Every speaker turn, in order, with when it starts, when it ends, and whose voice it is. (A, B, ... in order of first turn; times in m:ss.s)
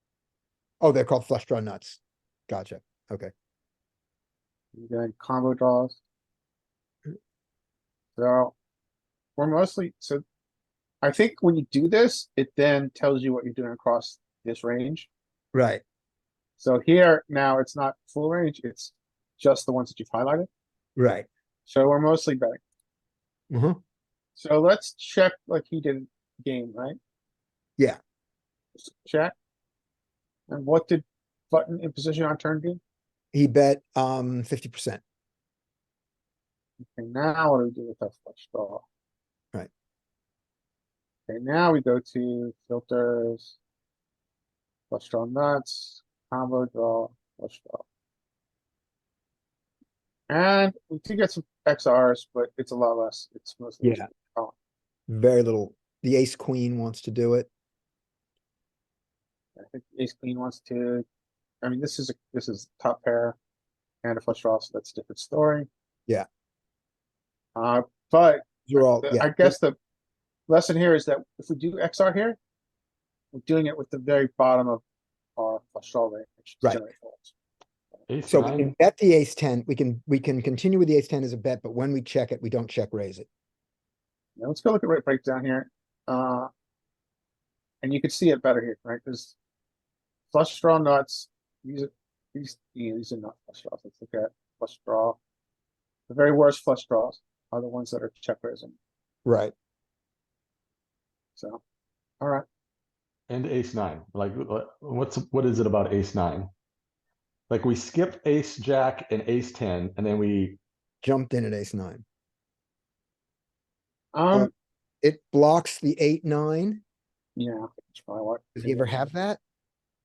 0:00.8-0:03.3 A
0:04.7-0:06.0 B
0:08.2-0:08.5 B
0:09.4-0:10.2 B
0:11.0-0:15.1 B
0:15.5-0:15.8 A
0:16.6-0:20.5 B
0:21.0-0:21.3 A
0:21.6-0:22.6 B
0:23.5-0:23.8 A
0:24.4-0:27.0 B
0:28.8-0:29.3 B
0:30.5-0:32.8 B
0:33.3-0:35.0 A
0:36.8-0:38.8 B
0:41.3-0:43.6 B
0:44.9-0:47.8 B
0:50.3-0:54.5 B
0:55.1-0:57.5 A
0:59.6-1:01.0 B
1:01.6-1:03.4 B
1:04.0-1:05.7 B
1:07.5-1:09.8 B
1:08.7-1:09.6 A
1:10.5-1:12.4 B
1:13.3-1:14.8 B
1:15.4-1:17.3 B
1:18.1-1:18.7 C
1:18.3-1:23.3 A
1:24.4-1:26.5 B
1:27.8-1:29.4 B
1:30.3-1:35.2 B
1:36.1-1:38.8 B
1:39.2-1:39.5 A
1:41.4-1:41.6 B
1:42.2-1:42.4 B
1:43.3-1:46.5 C
1:47.5-1:50.6 C
1:51.0-1:52.0 A
1:54.1-1:54.5 B
1:55.0-1:56.8 A
1:57.4-1:58.8 B
1:58.5-1:59.4 A